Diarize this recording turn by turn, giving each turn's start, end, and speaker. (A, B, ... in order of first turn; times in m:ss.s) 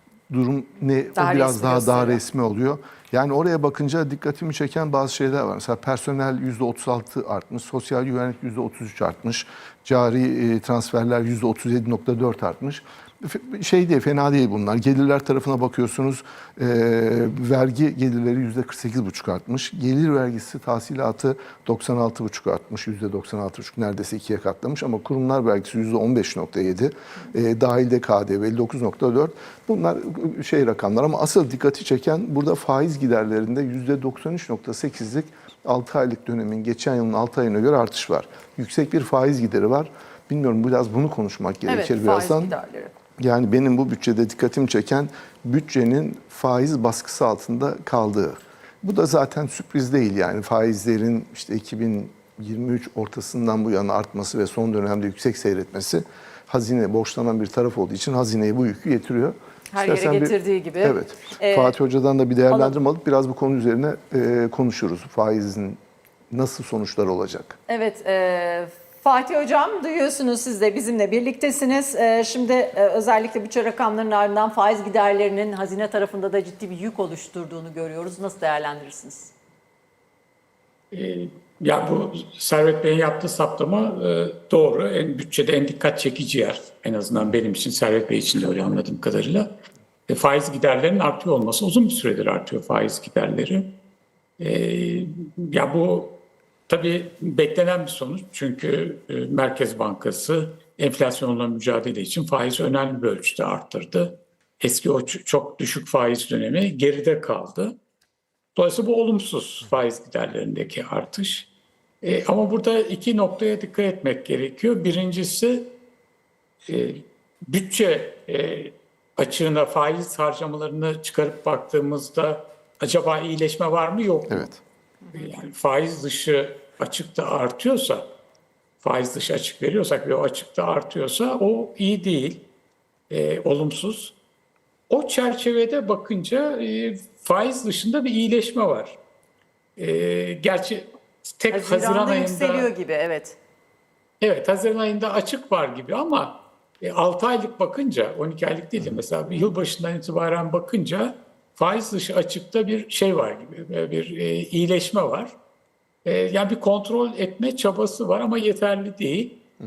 0:00.3-0:42.5 A
0:01.2-0:02.2 B
0:41.7-0:42.9 B
0:43.2-1:05.8 A
0:59.7-1:01.8 B
1:02.5-1:02.8 B
1:06.3-1:07.6 A
1:07.7-1:19.3 B
1:20.9-1:29.5 C
1:30.1-1:33.8 C
1:34.4-1:47.8 C
1:48.6-1:51.5 C
1:52.0-1:55.8 C
1:56.7-2:04.5 C
2:04.3-2:04.6 A
2:05.1-2:08.1 C
2:08.8-2:12.5 C
2:13.1-2:14.2 C
2:14.9-2:19.0 C
2:19.8-2:22.7 C
2:21.5-2:23.4 B
2:24.2-2:35.4 C
2:36.0-2:39.4 C